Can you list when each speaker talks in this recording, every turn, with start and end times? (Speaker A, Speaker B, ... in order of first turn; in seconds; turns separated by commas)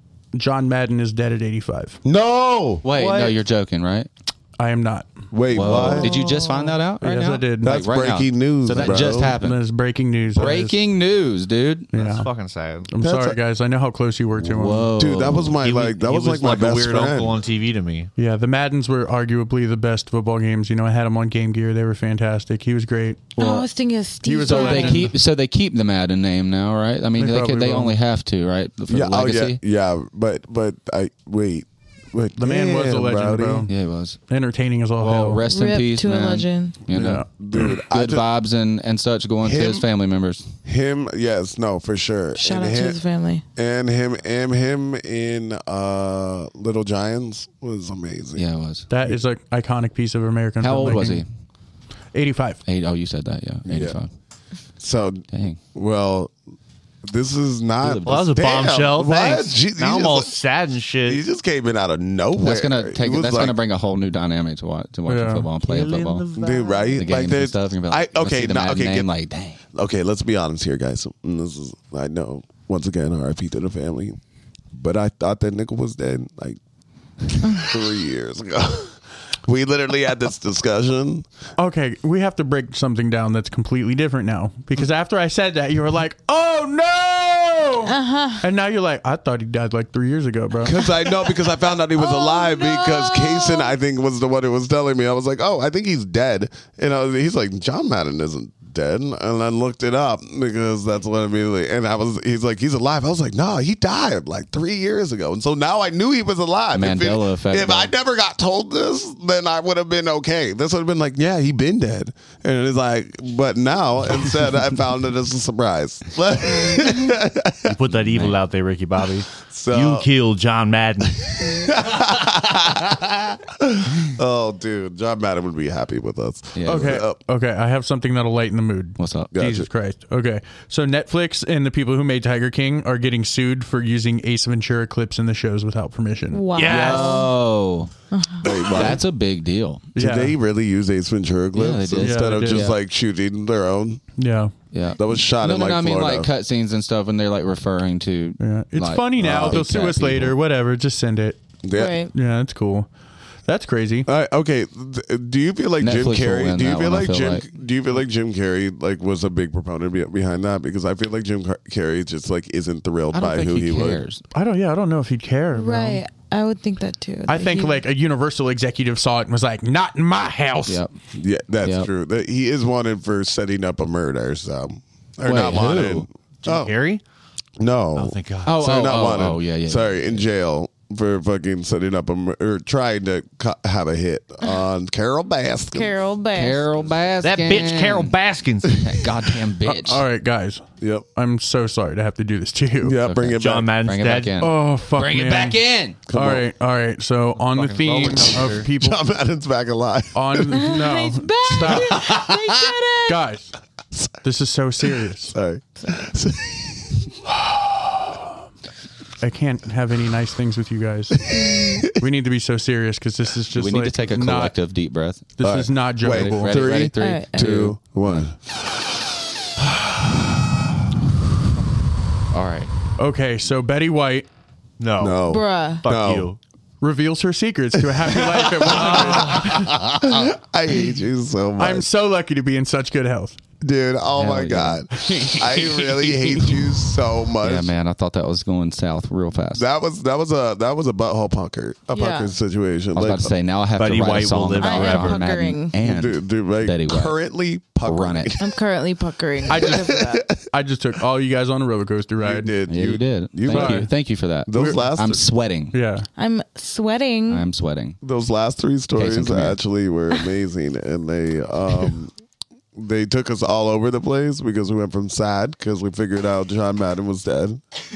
Speaker A: 0.3-2.0, Speaker B: 2.0-2.8, Speaker C: 2.8-4.1, Speaker D: 2.9-3.4, Speaker A: 4.6-5.1, Speaker B: 5.3-6.1, Speaker C: 5.5-9.6, Speaker E: 6.0-6.8, Speaker A: 7.0-7.8, Speaker B: 7.6-9.4, Speaker A: 8.8-10.8, Speaker C: 10.4-11.9, Speaker A: 11.9-12.3, Speaker D: 11.9-12.9, Speaker A: 12.9-14.9, Speaker B: 13.0-13.4, Speaker C: 14.4-15.6, Speaker B: 15.0-17.4, Speaker D: 15.6-18.1, Speaker A: 18.2-23.4, Speaker E: 23.4-25.1, Speaker C: 23.4-23.6, Speaker A: 24.2-25.1, Speaker C: 24.4-29.6, Speaker A: 27.2-27.9, Speaker B: 28.9-33.7, Speaker A: 32.4-33.7, Speaker C: 33.7-34.2, Speaker A: 34.3-35.4, Speaker C: 35.0-40.5, Speaker E: 35.5-36.8, Speaker A: 36.9-37.3, Speaker B: 37.1-38.3, Speaker B: 39.4-39.9, Speaker B: 40.6-43.0, Speaker E: 42.4-43.4, Speaker B: 43.6-48.5, Speaker C: 48.4-48.9, Speaker A: 48.9-51.2, Speaker C: 50.6-51.3, Speaker A: 52.1-52.6, Speaker C: 52.7-54.1, Speaker B: 53.7-54.0, Speaker B: 54.8-56.3, Speaker C: 55.3-55.6, Speaker B: 57.0-60.3, Speaker C: 57.8-58.4, Speaker D: 58.1-61.2, Speaker B: 61.1-63.6, Speaker C: 62.4-66.2, Speaker A: 65.1-65.5, Speaker D: 65.6-67.0, Speaker B: 66.4-69.1, Speaker C: 66.9-69.6, Speaker B: 69.7-74.2, Speaker B: 74.7-76.6, Speaker B: 77.3-81.3, Speaker E: 77.4-77.7, Speaker A: 81.6-90.8, Speaker E: 87.9-88.4, Speaker B: 90.6-117.8, Speaker E: 92.0-93.7, Speaker C: 106.7-107.9, Speaker D: 117.7-121.3, Speaker C: 117.9-118.4, Speaker B: 119.4-120.1, Speaker B: 121.3-127.2, Speaker C: 126.5-127.0, Speaker A: 126.7-137.0, Speaker C: 129.0-129.3, Speaker B: 129.3-129.7, Speaker E: 136.3-137.3, Speaker C: 136.6-137.9, Speaker E: 138.1-138.7, Speaker B: 138.4-139.0, Speaker C: 138.7-139.8, Speaker A: 139.9-140.3, Speaker B: 140.0-144.0, Speaker C: 141.6-142.8, Speaker A: 142.0-142.7, Speaker A: 144.2-144.5, Speaker C: 144.7-150.3, Speaker B: 145.0-146.3, Speaker A: 148.4-151.4, Speaker B: 149.2-149.6, Speaker B: 151.6-152.0, Speaker E: 151.8-152.1, Speaker A: 152.1-152.9, Speaker A: 153.5-154.1, Speaker B: 154.1-164.0, Speaker C: 155.8-157.5, Speaker C: 163.1-164.2, Speaker A: 164.3-166.0, Speaker E: 165.6-167.8, Speaker A: 167.3-170.8, Speaker C: 170.7-170.9, Speaker B: 171.1-176.7, Speaker C: 171.6-171.9, Speaker C: 175.2-176.1, Speaker D: 176.4-177.0, Speaker B: 177.6-185.9, Speaker D: 178.0-178.5, Speaker C: 178.4-180.2, Speaker E: 185.7-186.7, Speaker C: 186.3-188.2, Speaker D: 187.2-188.8, Speaker C: 188.7-190.0, Speaker A: 189.7-190.6, Speaker B: 190.8-191.1, Speaker A: 191.2-193.0, Speaker B: 192.8-193.7, Speaker C: 193.0-196.0, Speaker D: 193.4-194.4, Speaker A: 194.4-199.0, Speaker B: 196.1-196.4, Speaker D: 197.4-198.7, Speaker B: 198.2-200.6, Speaker A: 200.2-202.1, Speaker E: 200.5-203.1, Speaker B: 201.6-202.7, Speaker A: 203.1-203.5, Speaker A: 204.2-205.3, Speaker B: 205.3-207.2, Speaker A: 207.3-208.2, Speaker A: 209.2-211.3, Speaker B: 211.2-211.9, Speaker E: 211.3-211.8, Speaker A: 211.9-214.5, Speaker C: 213.6-215.3, Speaker A: 215.4-216.6, Speaker B: 215.4-218.4, Speaker C: 216.1-218.2, Speaker E: 217.0-217.5, Speaker C: 222.3-222.7, Speaker A: 223.0-224.3, Speaker D: 224.8-225.3, Speaker B: 225.0-226.3, Speaker E: 225.3-225.8, Speaker D: 225.8-226.4, Speaker A: 226.8-229.7, Speaker B: 228.0-231.9, Speaker D: 228.9-229.5, Speaker A: 231.6-233.4, Speaker B: 233.6-237.7, Speaker C: 234.2-234.8, Speaker A: 235.1-235.5, Speaker C: 237.4-239.7, Speaker B: 239.6-243.3, Speaker E: 241.9-242.3, Speaker C: 242.9-247.2, Speaker D: 243.8-245.2, Speaker E: 244.6-245.8, Speaker B: 245.8-248.6, Speaker C: 247.8-248.4, Speaker E: 248.4-250.2, Speaker B: 249.5-250.4, Speaker A: 249.5-252.5, Speaker B: 252.2-253.9, Speaker C: 252.7-255.8, Speaker A: 253.5-253.9, Speaker B: 254.5-255.3, Speaker A: 255.7-256.1, Speaker E: 256.2-257.4, Speaker C: 257.3-258.0, Speaker B: 258.0-262.1, Speaker C: 259.0-259.6, Speaker B: 262.8-267.6